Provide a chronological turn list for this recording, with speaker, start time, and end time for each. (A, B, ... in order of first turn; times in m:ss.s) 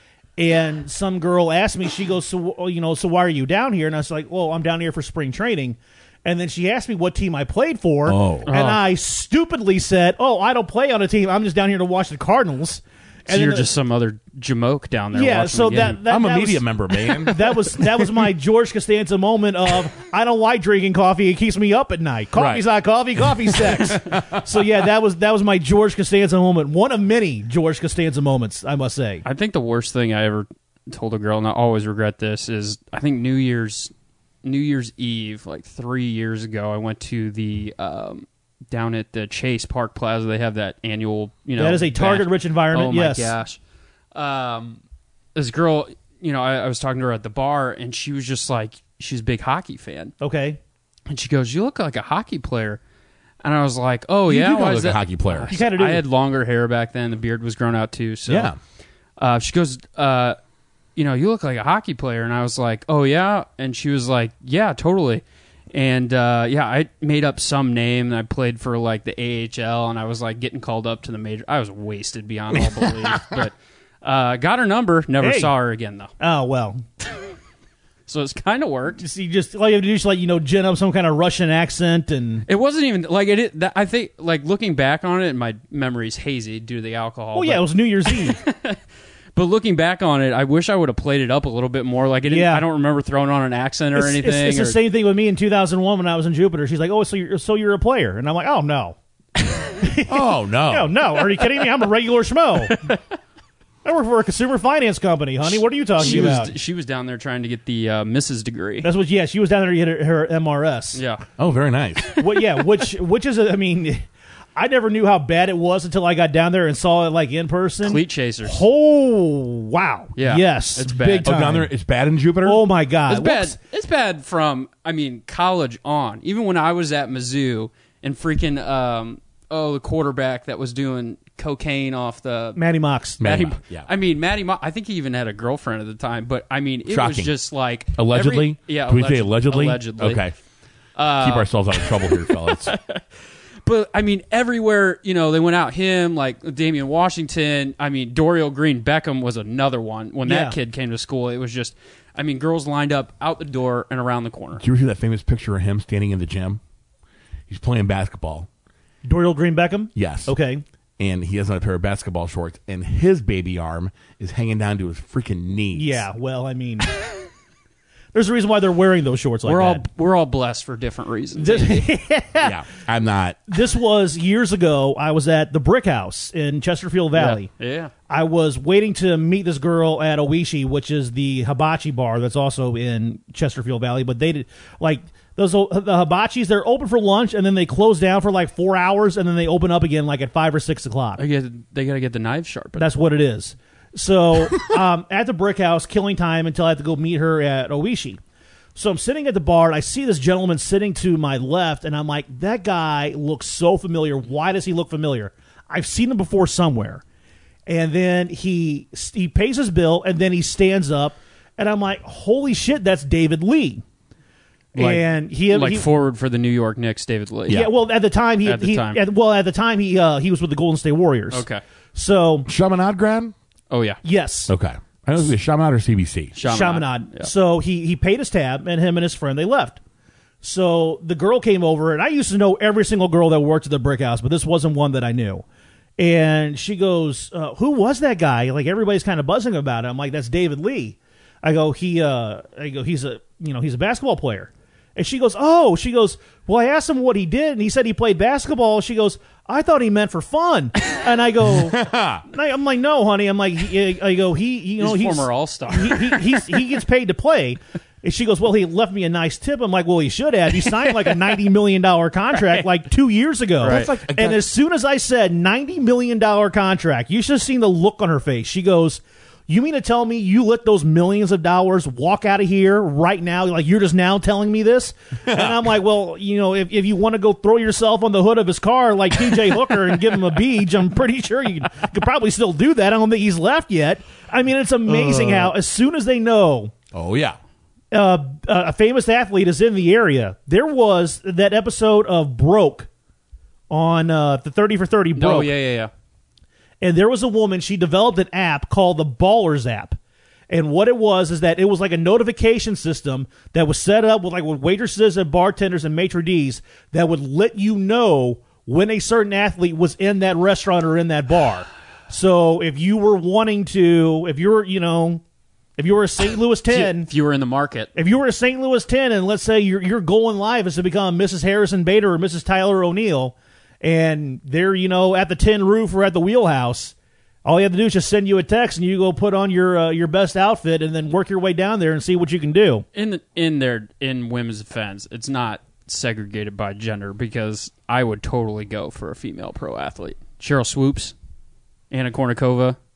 0:00.4-0:13.7 A
0:08.1-0:08.5 B
0:08.5-0:08.8 C
0:13.3-0:16.0 C
0:15.1-0:29.2 A
0:16.0-0:18.0 B
0:22.4-0:22.6 B
0:23.2-0:24.4 B
0:29.2-0:33.9 C
0:34.4-0:43.6 C
0:41.6-0:43.4 A
0:44.1-0:44.8 C
0:45.4-0:50.1 C
0:50.2-0:50.6 A
0:51.1-0:52.8 C
0:53.4-0:58.5 C
0:54.3-0:55.5 B
0:55.5-0:56.0 A
0:58.3-0:58.6 B
0:59.2-1:00.4 C
1:01.0-1:05.2 C
1:05.7-1:16.1 C
1:15.2-1:15.5 A
1:16.2-1:16.8 A
1:18.1-1:19.0 C
1:19.0-1:22.5 A
1:22.5-1:28.8 C
1:27.3-1:28.4 A
1:29.4-1:34.8 C
1:32.3-1:32.6 A
1:34.0-1:42.8 A
1:40.1-1:40.9 B
1:42.6-1:43.0 C
1:43.8-1:46.5 A
1:46.0-1:48.9 C
1:48.8-1:51.0 A
1:50.9-1:51.2 C
1:51.4-1:52.1 B
1:52.0-1:52.6 C
1:52.2-1:54.0 A
1:54.6-2:01.7 A
1:57.8-1:58.6 C
2:00.2-2:01.4 C
2:01.2-2:02.6 B
2:02.4-2:03.6 A
2:03.1-2:12.6 C
2:12.6-2:13.2 A
2:13.2-2:13.9 B
2:13.2-2:20.2 C
2:16.9-2:17.3 B
2:18.0-2:20.4 B
2:21.0-2:23.0 C
2:21.2-2:22.7 B
2:23.6-2:34.6 C
2:30.2-2:30.6 A
2:34.6-2:36.6 B
2:37.5-2:38.5 B
2:39.0-2:40.6 A
2:40.0-2:40.4 B
2:41.0-2:46.0 B
2:45.7-2:46.9 A
2:48.1-2:49.8 A
2:49.5-2:51.9 C
2:51.4-2:52.6 A
2:52.4-2:53.4 B
2:53.5-2:57.5 A
2:57.1-2:57.9 C
2:58.1-3:11.2 A
3:11.2-3:12.9 C
3:12.8-3:18.2 A
3:18.8-3:27.0 A
3:27.7-3:33.8 A
3:34.8-3:35.9 A
3:34.8-3:37.7 C
3:37.5-3:42.5 A
3:38.4-3:39.0 C
3:41.3-3:41.6 C
3:42.5-3:43.3 B
3:43.7-3:44.0 C
3:44.0-3:44.5 A
3:44.5-3:46.4 B
3:46.4-3:47.3 C
3:46.4-3:49.8 A
3:50.4-3:55.4 A
3:56.0-4:46.7 A
4:11.5-4:12.2 B
4:14.8-4:16.5 C
4:23.6-4:24.5 B
4:23.6-4:23.9 C
4:35.2-4:35.6 B
4:44.9-4:45.5 B
4:46.9-4:47.4 B
4:47.9-4:52.9 A
4:53.7-4:55.5 A
4:55.2-4:55.9 C
4:56.8-5:00.0 A
5:00.5-5:15.2 A
5:15.8-5:17.1 A
5:16.7-5:17.9 C
5:18.0-5:32.8 A
5:33.0-5:41.1 C
5:41.9-5:42.8 C